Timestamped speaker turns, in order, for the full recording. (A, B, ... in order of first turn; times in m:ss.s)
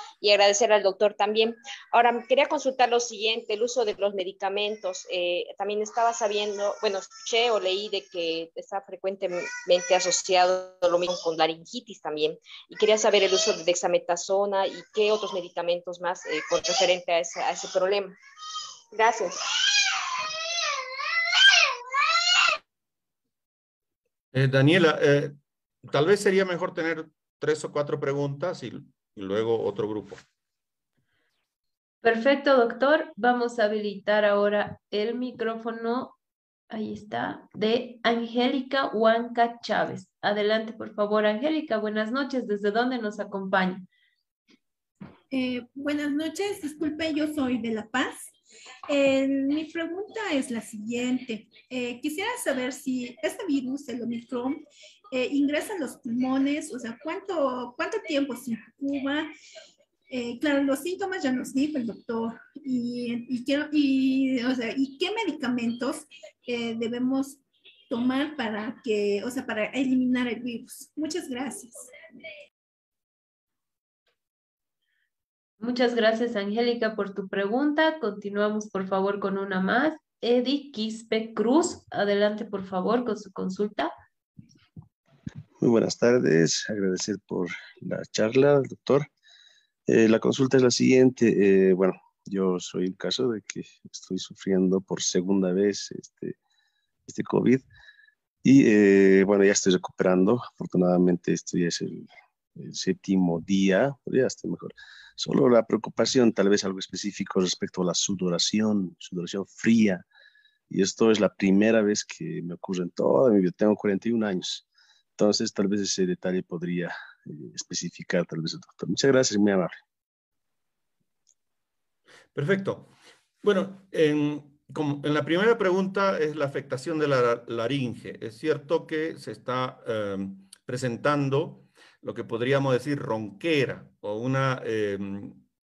0:00.2-0:18.2 A
0:18.9-0:19.5 A
0:24.3-0:30.2 B
0:32.0-0:36.2 C
0:36.7-0:43.9 C
0:45.3-0:48.4 D
0:48.9-0:59.3 D
1:00.1-1:11.9 D
1:15.6-1:23.9 C
1:25.6-1:29.1 E
1:29.9-1:36.4 E
1:37.1-1:37.6 E
1:38.4-1:50.0 E
1:50.7-1:54.6 E
1:55.2-1:59.8 E
2:02.3-2:02.9 B
2:03.4-2:15.4 B